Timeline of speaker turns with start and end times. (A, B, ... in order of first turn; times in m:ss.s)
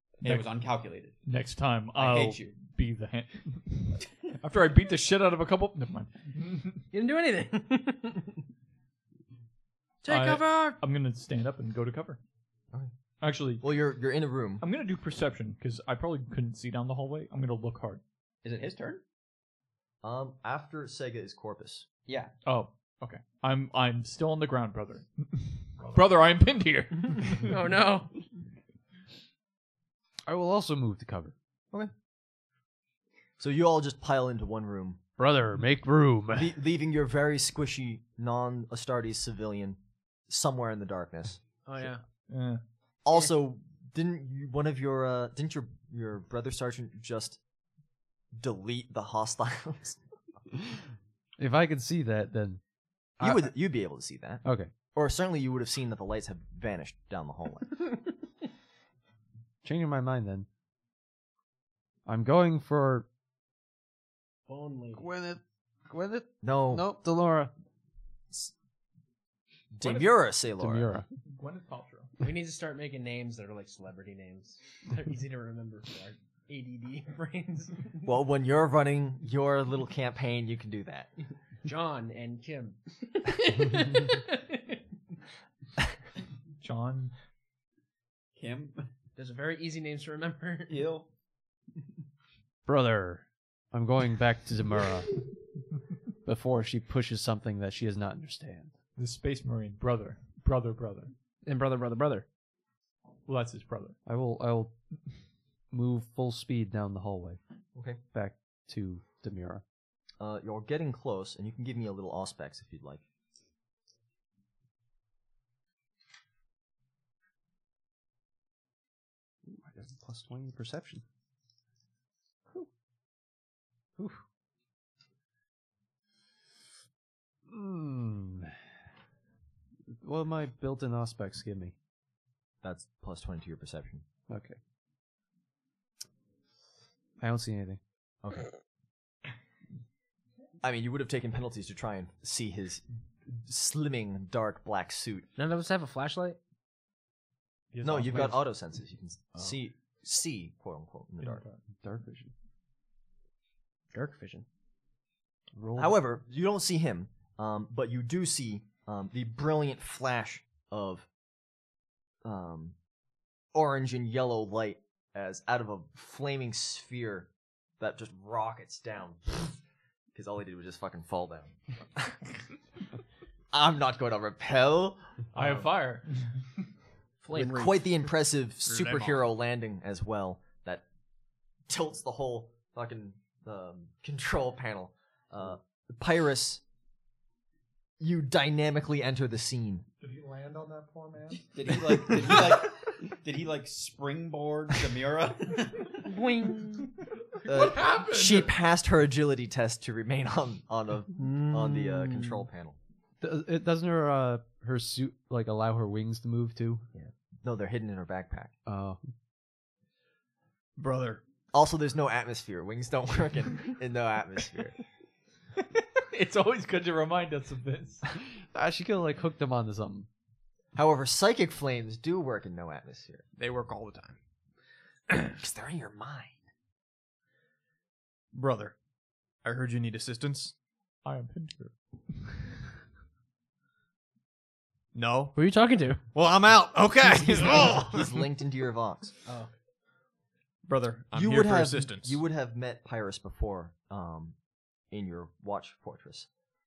0:00.2-0:01.2 A
0:00.2-0:00.5 B
0:01.2-0:06.8 B
0:01.9-0:02.6 A
0:06.9-0:08.4 C
0:10.0-0:10.8 C
0:10.1-0:12.2 B
0:13.2-0:13.6 B
0:13.6-0:14.6 D
0:14.6-0:18.0 B
0:18.4-0:19.0 A
0:20.0-0:21.9 D
0:22.1-0:22.4 A
0:22.4-0:27.6 B
0:27.4-0:28.1 C
0:30.2-0:31.3 E
0:33.4-0:35.0 D
0:35.2-0:36.5 E
0:36.3-0:41.9 D
0:41.6-0:42.0 C
0:42.3-0:42.6 B
0:43.0-0:47.4 D
0:48.3-0:50.0 D
0:51.4-0:52.6 E
0:53.2-0:53.6 E
0:53.2-0:58.0 D
0:54.4-0:54.7 E
0:59.6-1:00.5 E
1:02.0-1:03.1 E
1:04.5-1:05.1 C
1:04.9-1:07.5 E
1:06.4-1:06.8 D
1:09.7-1:10.9 D
1:09.8-1:10.1 B
1:10.6-1:11.1 E
1:11.2-1:12.1 B
1:12.2-1:18.0 C
1:18.0-1:21.1 D
1:21.6-1:24.8 C
1:26.6-1:27.1 B
1:28.3-1:28.9 A
1:29.2-1:30.7 C
1:30.7-1:31.1 A
1:32.6-1:35.3 E
1:36.2-1:38.8 E
1:39.0-1:41.1 B
1:41.4-1:42.2 C
1:43.2-1:44.0 B
1:44.0-1:44.8 E
1:45.7-1:47.4 E
1:47.7-1:48.0 D
1:48.1-1:49.6 E
1:50.2-1:53.0 D
1:59.5-2:01.0 E
2:07.5-2:08.6 E
2:09.9-2:11.7 E
2:12.6-2:14.0 D
2:14.3-2:14.6 E
2:17.2-2:17.8 E
2:18.2-2:18.5 D
2:20.6-2:25.3 D
2:25.4-2:26.4 C
2:27.7-2:28.5 B
2:27.8-2:31.4 D
2:31.3-2:31.6 B
2:31.8-2:32.3 E
2:33.9-2:34.4 C
2:35.5-2:36.0 E
2:35.8-2:41.1 D
2:42.2-2:42.8 D
2:43.5-2:49.6 D
2:50.1-2:52.2 D
2:53.5-2:55.1 D
2:55.3-2:56.2 B
2:57.2-2:58.0 C
2:57.3-3:00.8 D
2:58.6-2:59.2 F
3:01.7-3:06.6 D
3:08.0-3:09.9 D
3:10.0-3:12.2 G
3:11.5-3:15.9 A
3:16.0-3:16.9 C
3:17.4-3:18.5 G
3:17.4-3:22.8 D
3:21.2-3:22.4 C
3:23.2-3:26.8 E
3:27.4-3:28.5 D
3:28.6-3:29.1 E
3:30.8-3:31.2 F
3:31.5-3:34.8 D
3:36.0-3:38.0 B
3:38.3-3:40.1 E
3:40.7-3:43.2 D
3:43.4-3:44.2 F
3:45.3-3:46.4 D
3:48.3-3:48.8 F
3:49.4-3:50.5 F
3:51.0-3:52.4 B
3:54.9-3:55.4 F
3:55.3-3:56.0 C
3:56.1-3:58.0 F
3:57.0-3:59.1 D
3:59.2-3:59.5 C
4:00.6-4:02.2 F
4:01.1-4:04.4 D
4:04.9-4:06.3 D